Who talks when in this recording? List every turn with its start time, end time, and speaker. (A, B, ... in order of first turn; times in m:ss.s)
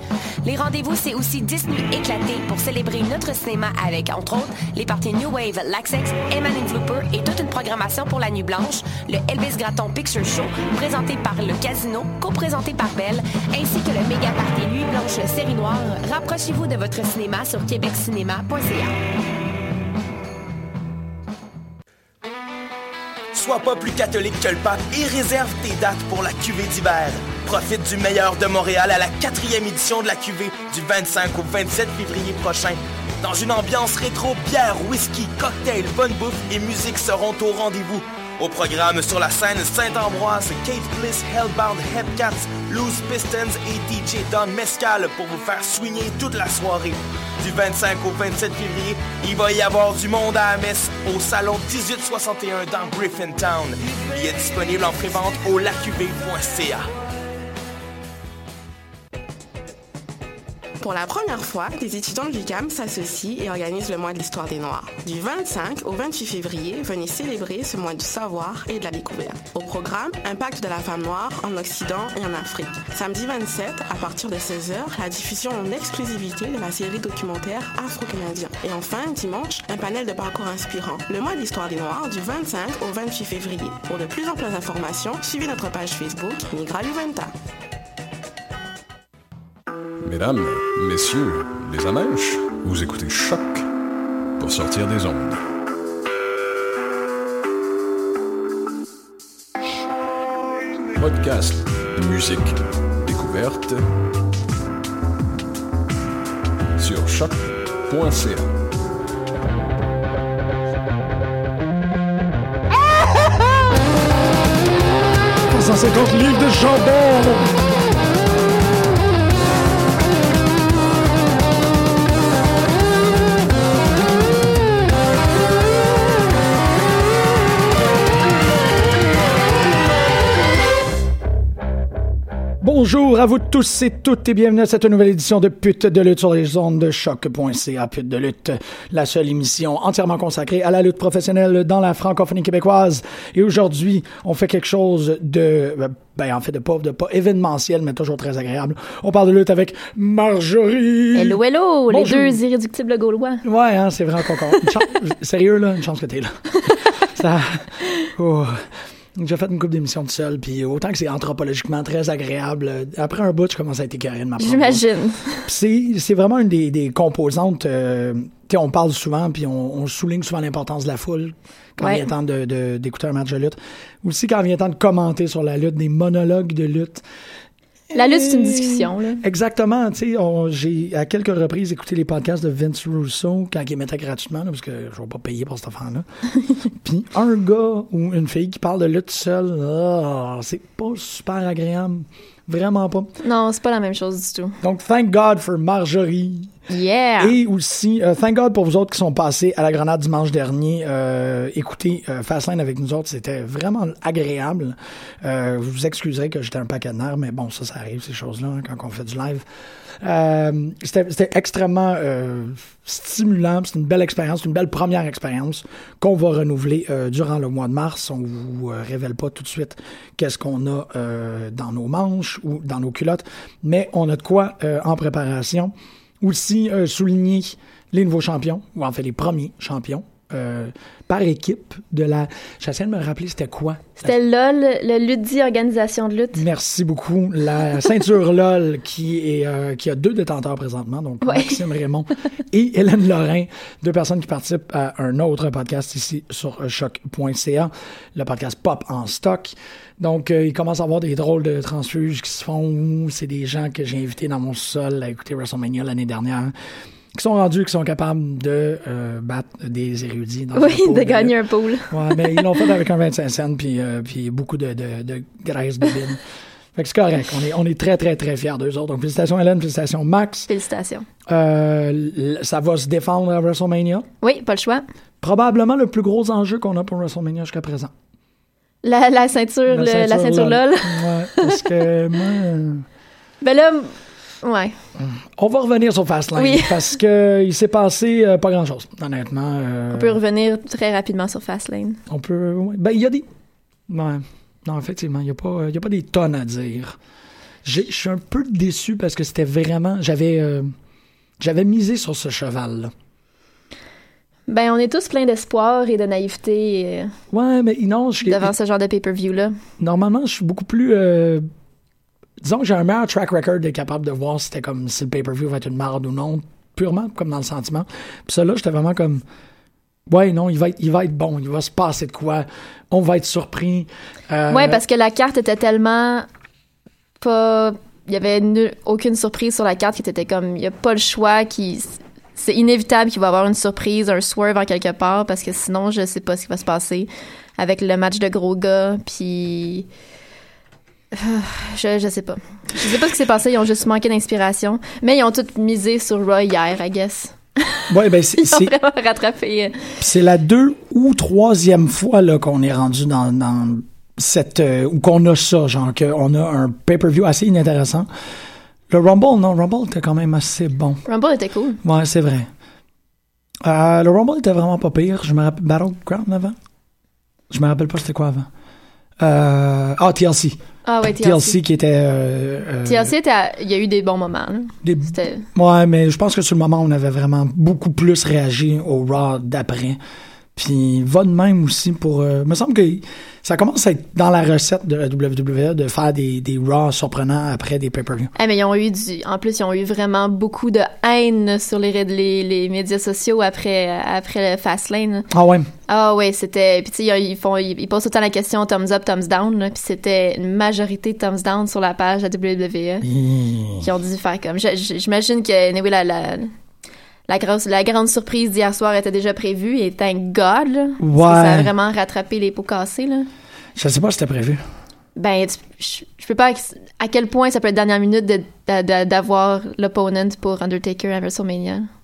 0:00.4-0:18.9 A
0:23.3-0:56.9 B
1:00.8-1:27.3 C
1:30.0-1:33.7 D
1:34.4-1:35.4 D
1:40.9-1:43.9 D
1:46.8-1:48.5 D
1:55.5-1:57.5 E
2:12.6-2:32.4 E
2:31.1-2:33.4 F
2:33.4-2:44.8 E
2:44.4-2:45.5 F
2:45.5-2:57.0 E
2:57.9-3:06.1 E
2:57.9-2:59.2 F
3:06.8-3:13.1 E
3:13.2-3:14.6 F
3:14.6-3:16.5 E
3:16.7-3:17.4 F
3:17.2-3:29.4 E
3:30.0-3:54.1 E
3:54.0-3:56.4 F
3:56.4-4:16.5 E
4:01.2-4:01.6 F
4:17.1-4:21.4 E
4:20.5-4:22.6 F
4:21.9-4:26.2 E
4:26.8-4:30.5 E
4:30.5-4:31.1 F
4:31.3-4:34.1 E
4:34.2-4:34.8 F
4:35.2-4:37.9 E
4:38.8-4:41.6 F
4:39.7-4:42.8 E
4:43.4-4:43.9 F
4:44.4-4:44.8 F
4:45.0-4:50.2 E
4:46.4-4:47.0 F
4:49.9-4:52.0 F
4:52.1-4:53.3 E
4:53.9-4:57.0 E
4:57.6-5:00.7 E
5:01.4-5:02.9 E
5:04.5-5:07.1 F
5:07.3-5:08.5 E
5:08.2-5:09.6 F
5:09.8-5:11.5 E
5:12.4-5:19.2 E
5:20.1-5:24.8 E
5:24.5-5:26.3 F
5:27.2-5:39.9 F
5:41.1-5:47.9 F
5:47.9-5:48.7 E
5:48.4-5:49.8 F
5:50.0-5:58.1 E
5:58.9-6:01.0 E
6:01.1-6:01.8 F
6:01.8-6:02.5 E
6:03.6-6:06.6 E
6:07.5-6:08.5 E
6:09.2-6:10.6 E
6:10.8-6:11.6 F
6:11.2-6:13.1 E
6:12.8-6:15.5 F
6:14.8-6:20.0 E
6:20.6-6:28.3 E
6:28.4-6:35.3 F
6:35.3-6:35.7 E
6:35.9-6:43.1 F
6:43.0-6:43.9 E
6:43.8-6:46.5 F
6:47.3-6:53.3 F
6:51.0-6:51.7 E
6:53.8-6:54.6 E
6:55.2-7:01.9 F